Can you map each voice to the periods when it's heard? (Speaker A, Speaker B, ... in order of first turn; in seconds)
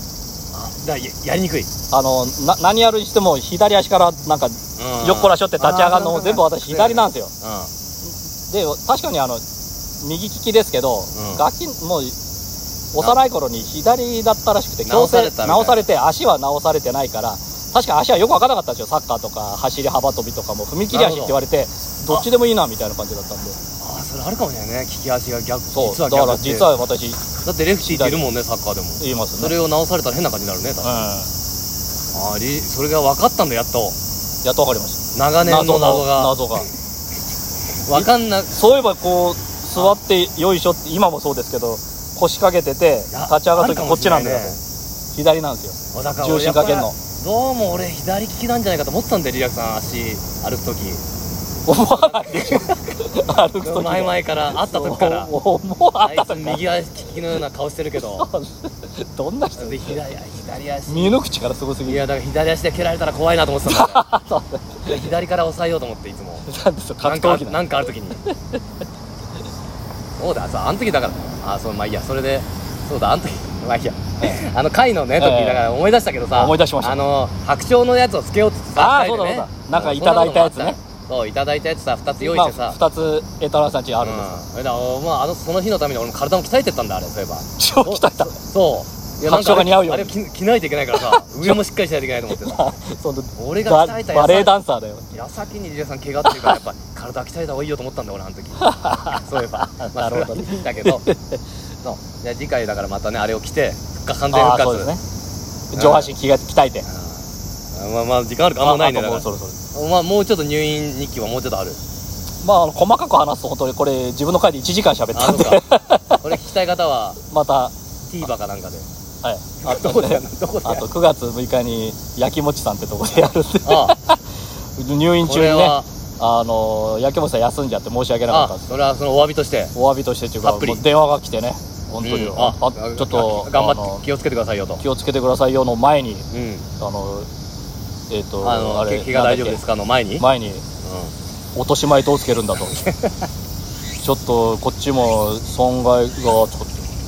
Speaker A: 0.5-1.7, 4.8-7.7, 11.1-11.5, 14.9-15.8, 20.9-21.4, 23.8-26.7, 27.4-30.9, 32.1-34.0, 35.1-36.4, 37.9-38.6, 43.1-44.6, 45.9-51.0, 51.8-53.0, 53.6-55.3, 56.0-58.3, 59.6-61.2, 61.9-64.0, 64.9-66.5, 67.0-68.2, 70.2-82.8, 84.0-92.6, 93.4-94.5, 95.1-101.0, 101.8-104.9, 105.8-106.1, 106.9-111.8, 115.1-115.6, 116.2-117.2, 118.1-118.9, 119.6-120.9, 123.7-124.0, 125.2-125.9, 128.3-129.7, 130.4-130.8, 132.0-134.8, 136.3-136.7, 138.4-140.3, 140.8-141.1, 142.6-143.1
Speaker B: 1.9-7.3, 8.1-9.4, 10.0-12.2, 12.9-23.6, 25.7-27.2, 27.8-28.2, 29.0-29.6, 30.8-31.3, 34.4-36.7, 37.9-44.6, 45.1-47.0, 51.7-56.6, 58.0-60.0, 60.9-62.1, 63.7-65.1, 66.5-68.6, 75.2-75.7, 76.3-77.0, 78.8-80.8, 82.2-84.4, 87.6-88.3, 89.2-90.1, 91.0-91.6, 92.4-95.1, 96.3-96.6, 98.6-101.4, 104.3-105.0, 105.7-106.9, 108.6-109.6, 112.4-116.2, 117.3-117.8, 119.2-124.2, 124.8-128.8, 129.8-134.0, 134.8-136.3, 136.8-137.3, 138.1-139.6, 140.2-140.7, 141.6-142.8, 144.0-146.9